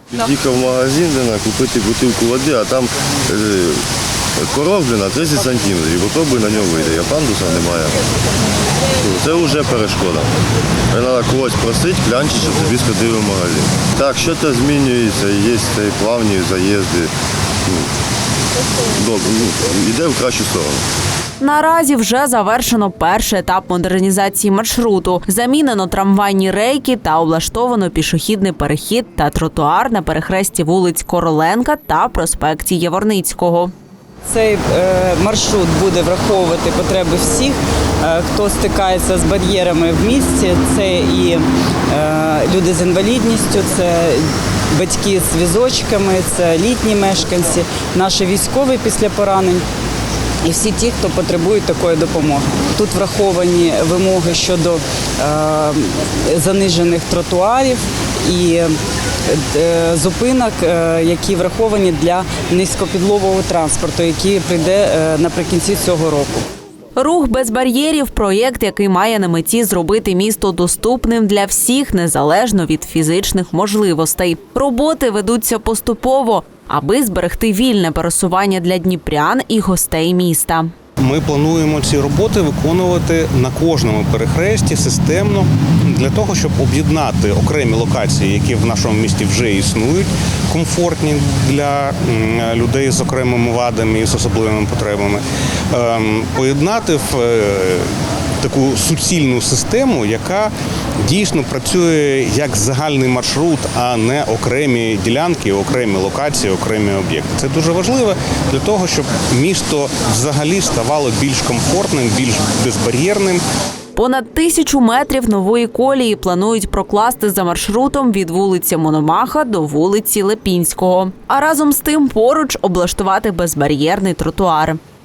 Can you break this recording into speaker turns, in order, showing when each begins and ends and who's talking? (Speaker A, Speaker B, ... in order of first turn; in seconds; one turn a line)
Speaker A: 0.1-3.8
Speaker A: 4.4-8.0
Speaker A: 8.9-10.3
Speaker A: 10.9-17.1
Speaker A: 18.9-20.8
Speaker B: 21.4-33.7
Speaker C: 34.2-49.6
Speaker C: 50.4-58.7
Speaker C: 59.2-66.5
Speaker B: 67.0-80.7
Speaker D: 81.0-113.4
Speaker B: 113.9-124.8